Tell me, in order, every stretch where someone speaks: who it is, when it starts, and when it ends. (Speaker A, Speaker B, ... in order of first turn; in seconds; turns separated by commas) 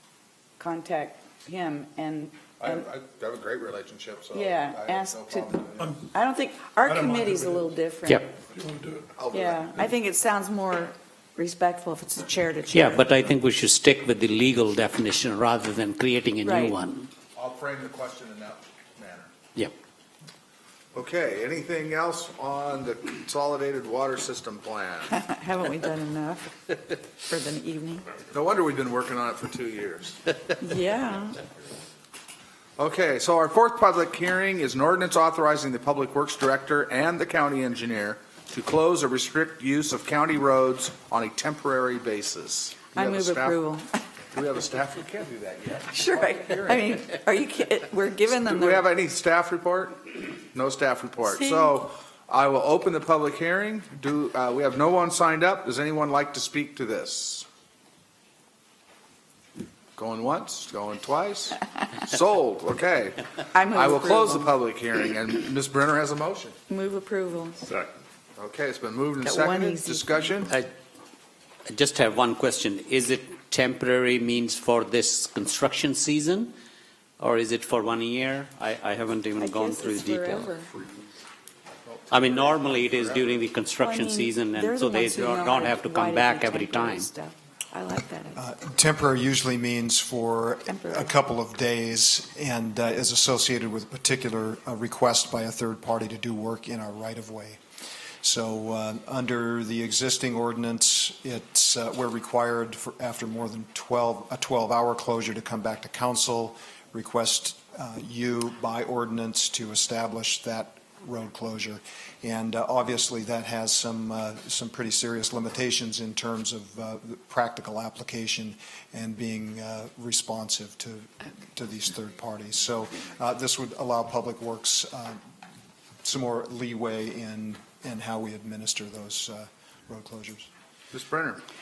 Speaker A: 0.6-2.9, Speaker B: 2.6-5.9, Speaker A: 4.3-8.2, Speaker C: 5.8-6.1, Speaker C: 6.8-7.8, Speaker C: 8.4-9.1, Speaker B: 9.2-9.8, Speaker A: 9.3-13.1, Speaker D: 12.7-17.1, Speaker A: 16.4-16.8, Speaker B: 17.3-19.3, Speaker B: 20.9-25.1, Speaker A: 25.1-28.1, Speaker B: 28.3-30.3, Speaker A: 30.6-31.4, Speaker B: 32.8-43.6, Speaker A: 42.9-44.0, Speaker B: 44.3-47.0, Speaker A: 45.9-48.9, Speaker B: 48.3-57.4, Speaker A: 51.3-51.8, Speaker B: 60.0-66.5, Speaker A: 63.5-64.5, Speaker A: 66.7-67.7, Speaker B: 68.4-70.5, Speaker A: 69.2-70.4, Speaker D: 71.7-76.5, Speaker D: 77.2-80.6, Speaker A: 79.4-80.7, Speaker B: 81.8-83.5, Speaker D: 82.1-87.1, Speaker A: 83.8-88.4, Speaker E: 88.3-97.6, Speaker A: 90.7-91.1, Speaker E: 98.2-125.2, Speaker E: 126.0-130.5, Speaker B: 130.9-131.4